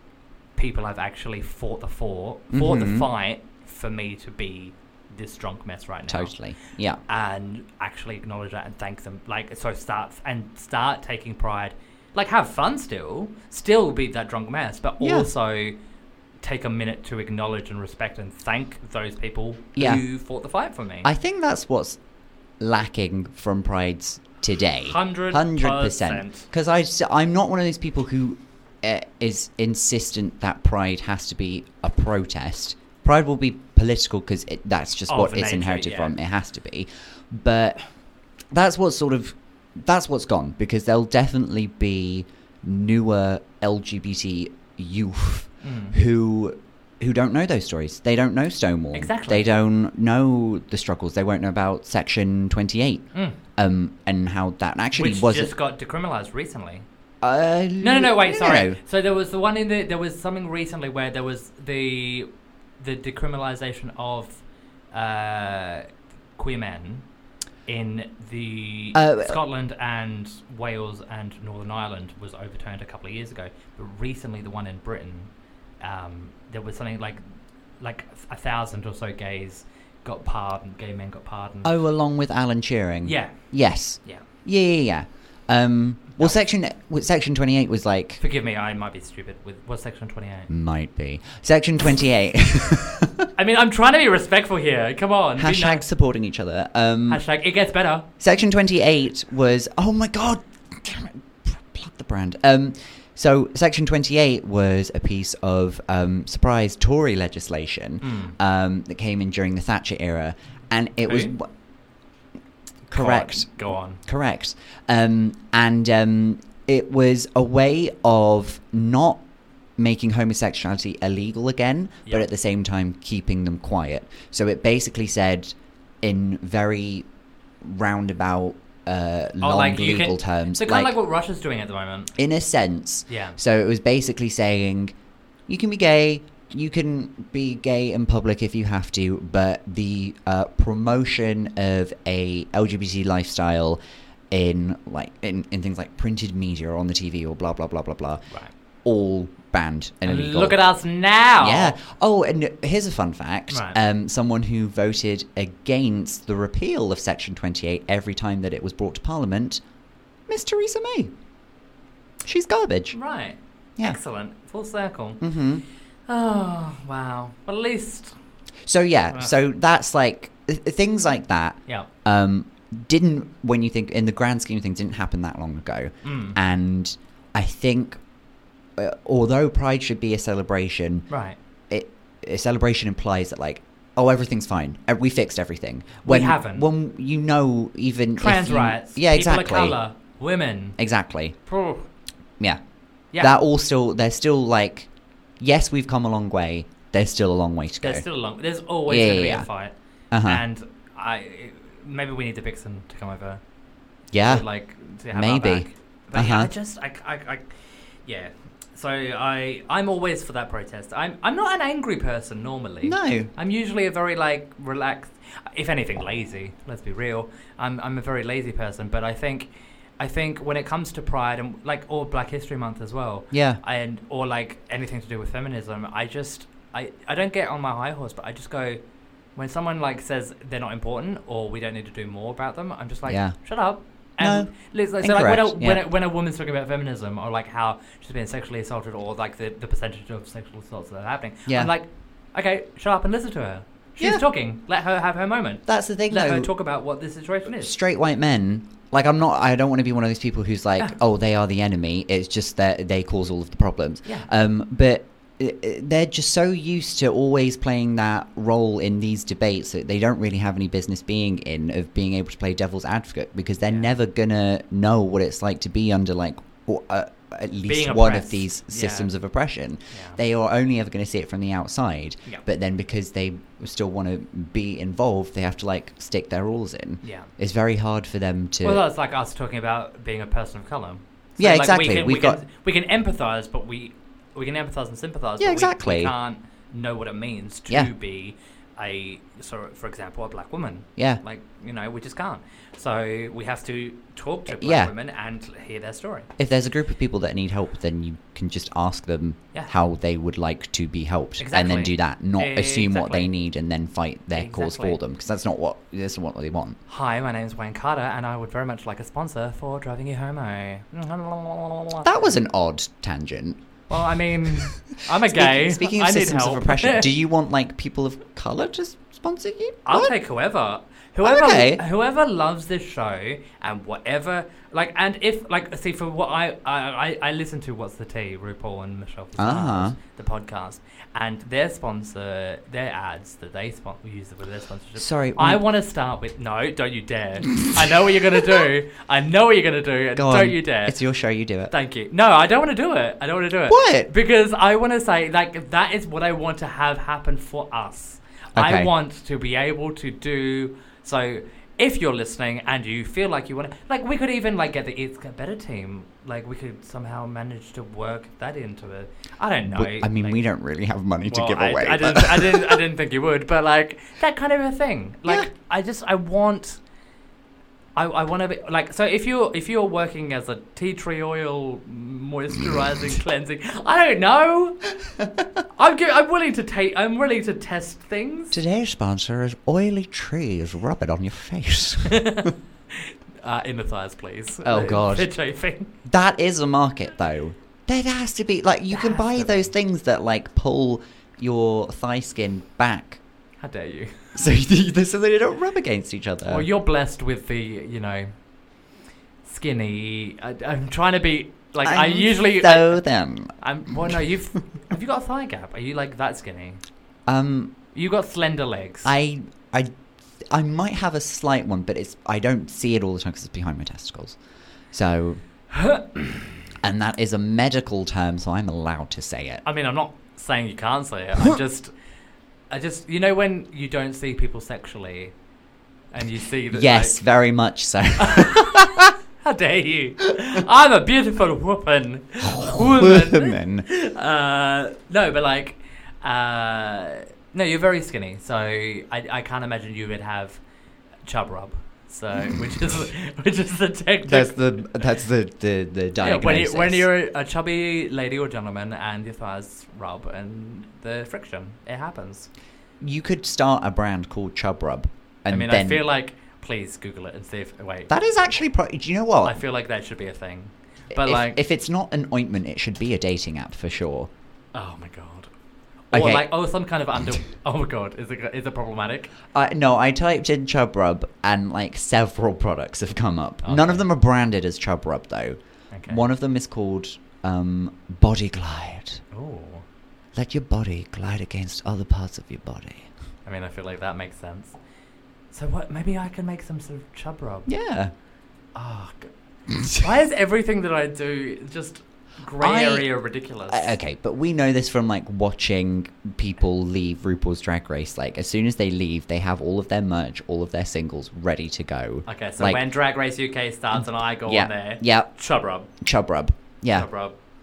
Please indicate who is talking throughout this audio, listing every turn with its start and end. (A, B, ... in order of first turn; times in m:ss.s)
0:00.6-0:06.3 A
0:02.5-0:03.1 B
0:06.1-0:07.0 B
0:07.1-0:15.8 A
0:15.0-0:15.3 B
0:16.4-0:21.1 A
0:19.8-0:20.0 B
0:21.0-0:22.0 B
0:22.6-0:37.8 B
0:24.8-0:26.4 A
0:35.1-0:36.1 A
0:38.5-0:55.5 B
0:45.6-0:46.0 A
0:48.9-0:49.4 A
0:55.0-0:56.8 A
0:57.2-0:58.8 B
0:57.8-1:02.3 A
1:02.8-1:04.4 A
1:04.9-1:07.0 A
1:07.7-1:17.2 A
1:08.9-1:09.4 B
1:17.8-1:21.7 A
1:21.6-1:28.2 B
1:23.0-1:23.4 A
1:28.2-1:30.5 A
1:30.5-1:33.3 B
1:33.4-1:35.8 A
1:35.4-1:37.2 B
1:37.1-1:38.1 A
1:38.2-1:51.5 B
1:48.0-1:48.4 A
1:51.0-1:51.3 A
1:52.9-1:53.5 B
1:52.9-1:54.0 A
1:54.0-1:59.2 B
1:59.8-2:07.1 B
2:07.6-2:10.9 B
2:09.4-2:12.1 A
2:12.2-2:14.9 B
2:13.1-2:13.4 A
2:15.5-2:23.8 B
2:24.3-2:28.2 B
2:28.8-2:30.6 B
2:30.0-2:31.8 A
2:31.4-2:39.6 B
2:33.5-2:33.8 A
2:40.3-2:41.1 B
2:42.2-2:43.0 B
2:42.9-2:45.2 A
2:45.2-2:45.6 B
2:46.1-2:48.1 A
2:48.6-2:58.0 B
2:56.0-2:56.4 A
2:58.8-3:01.1 B
3:01.1-3:01.4 A
3:01.7-3:09.8 B
3:06.0-3:06.7 A
3:08.2-3:10.8 A
3:10.8-3:11.4 B
3:11.4-3:11.9 A
3:13.2-3:18.0 B
3:17.8-3:19.7 A
3:18.9-3:19.5 B
3:20.1-3:20.4 B
3:20.2-3:23.4 A
3:24.1-3:24.4 B
3:24.2-3:27.5 A
3:25.1-3:26.5 B
3:28.0-3:48.8 A
3:32.8-3:33.3 B
3:43.3-3:43.6 B
3:49.4-4:07.7 A
3:53.1-3:53.4 B
3:54.2-3:55.8 B
4:01.5-4:01.7 B
4:04.0-4:04.2 B
4:05.7-4:06.5 B
4:07.6-4:38.8 B
4:27.7-4:29.1 A
4:29.9-4:30.2 A
4:37.0-4:37.3 A
4:38.6-4:56.3 A
4:41.4-4:42.4 B
4:45.4-4:46.1 B
4:54.5-4:54.9 B
4:56.4-5:06.8 B
5:01.4-5:03.3 A
5:04.3-5:05.0 A
5:06.9-5:12.2 A
5:12.0-5:13.6 B
5:13.9-5:17.1 A
5:14.5-5:20.1 B
5:19.8-5:41.0 A
5:21.2-5:21.8 B
5:29.4-5:30.0 B
5:35.0-5:35.6 B
5:40.2-5:41.7 B
5:41.7-6:00.4 A
5:43.7-5:44.1 B
5:48.6-5:48.9 B
5:59.6-6:02.8 B
6:01.3-6:06.8 A
6:08.0-6:14.9 A
6:15.7-6:18.5 A
6:18.5-6:22.5 B
6:22.1-6:25.9 A
6:24.6-6:25.3 B
6:26.0-6:33.2 B
6:28.9-6:29.6 A
6:33.6-6:34.4 A
6:34.4-6:36.7 B
6:36.4-6:38.3 A
6:39.4-6:43.0 A
6:41.8-6:44.2 B
6:43.6-6:46.8 A
6:47.3-6:47.7 B
6:47.9-6:49.1 A
6:49.0-6:49.9 B
6:50.5-6:54.4 B
6:54.9-6:55.4 B
6:55.7-6:56.6 A
6:56.8-6:59.6 B
6:59.6-7:01.9 A
7:02.7-7:05.3 A
7:06.1-7:07.2 A
7:06.7-7:09.1 B
7:08.2-7:20.6 A
7:12.4-7:13.9 B
7:21.2-7:25.0 A
7:22.4-7:22.6 B
7:24.2-7:27.1 B
7:26.2-7:32.5 A
7:33.0-7:36.0 B
7:35.5-7:38.1 A
7:38.1-7:39.6 B
7:39.4-7:41.6 A
7:41.1-7:44.3 B
7:44.7-7:45.5 A
7:46.1-7:49.3 A
7:46.1-7:46.5 B
7:49.5-7:59.2 B
7:53.6-7:54.1 A
7:55.9-7:56.2 A
7:59.3-7:59.8 A
8:00.3-8:03.1 B
8:03.4-8:04.8 A
8:05.5-8:07.7 A
8:07.6-8:08.1 B
8:08.7-8:09.3 A
8:09.8-8:14.0 A
8:12.6-8:13.1 B
8:13.7-8:22.8 B
8:22.3-8:25.9 A
8:23.9-8:25.3 B
8:26.0-8:27.1 B
8:26.9-8:27.3 A